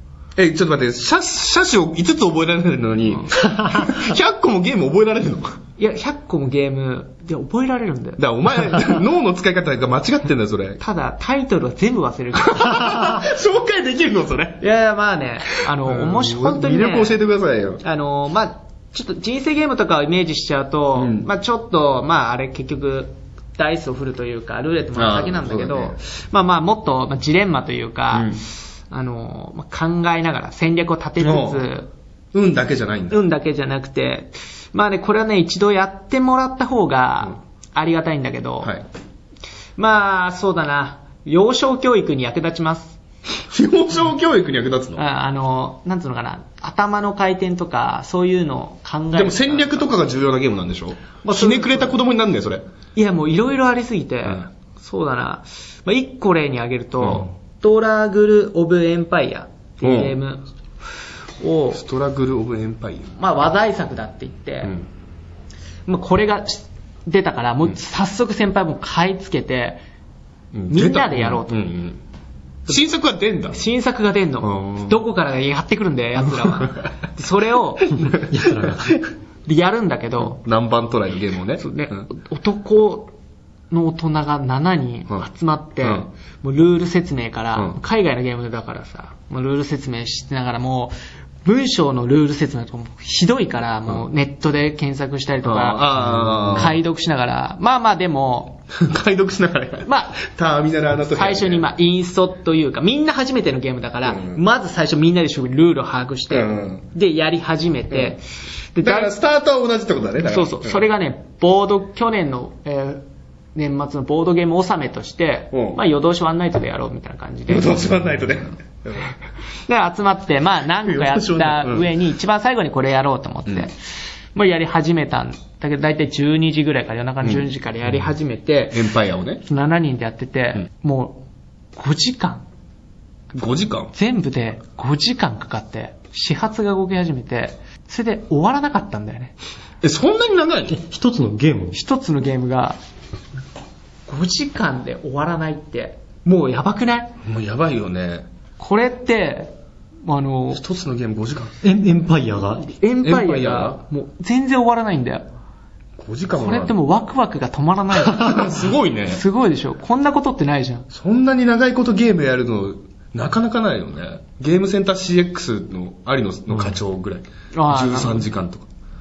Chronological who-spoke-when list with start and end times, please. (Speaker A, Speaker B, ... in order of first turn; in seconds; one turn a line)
Speaker A: 0.4-5.6
Speaker B: 5.8-8.2
Speaker A: 8.2-10.8
Speaker B: 10.8-13.2
Speaker A: 12.4-14.7
Speaker B: 14.6-17.2
Speaker A: 15.7-17.8
Speaker B: 17.8-31.9
Speaker A: 21.0-21.3
Speaker A: 25.0-26.0
Speaker A: 28.1-28.4
Speaker A: 31.2-31.7
Speaker A: 32.3-33.2
Speaker B: 33.1-38.8
Speaker B: 39.8-43.0
Speaker A: 43.5-45.0
Speaker B: 45.0-49.9
Speaker A: 49.1-52.6
Speaker B: 51.2-52.0
Speaker B: 53.0-60.5
Speaker A: 57.0-57.3
Speaker A: 59.8-60.2
Speaker B: 61.4-61.8
Speaker A: 61.7-63.1
Speaker B: 63.1-64.8
Speaker B: 65.9-69.8
Speaker A: 70.5-72.0
Speaker B: 70.7-71.7
Speaker A: 72.7-73.6
Speaker B: 73.5-78.2
Speaker A: 74.4-75.0
Speaker C: 78.3-79.0
Speaker B: 79.5-80.4
Speaker A: 80.3-82.1
Speaker B: 81.6-83.1
Speaker B: 83.7-90.9
Speaker B: 91.5-98.7
Speaker A: 95.5-96.8
Speaker A: 98.7-101.7
Speaker B: 99.8-100.2
Speaker B: 101.1-108.2
Speaker A: 104.1-104.4
Speaker A: 106.3-106.8
Speaker B: 108.7-109.1
Speaker A: 108.8-110.8
Speaker B: 110.2-117.9
Speaker A: 115.5-115.8
Speaker A: 117.5-119.1
Speaker B: 119.7-123.8
Speaker A: 120.8-121.9
Speaker B: 124.3-128.9
Speaker A: 128.7-129.4
Speaker B: 129.4-132.4
Speaker A: 133.3-133.9
Speaker B: 133.9-139.3
Speaker A: 139.8-140.8
Speaker C: 140.7-141.8
Speaker B: 141.7-142.8
Speaker B: 144.1-147.2
Speaker A: 147.2-148.3
Speaker B: 148.6-150.6
Speaker A: 150.5-151.6
Speaker C: 151.6-152.7
Speaker B: 152.6-155.3
Speaker A: 153.0-153.8
Speaker A: 156.0-156.8
Speaker B: 156.3-160.9
Speaker A: 158.1-159.2
Speaker A: 160.9-168.7
Speaker B: 167.5-168.3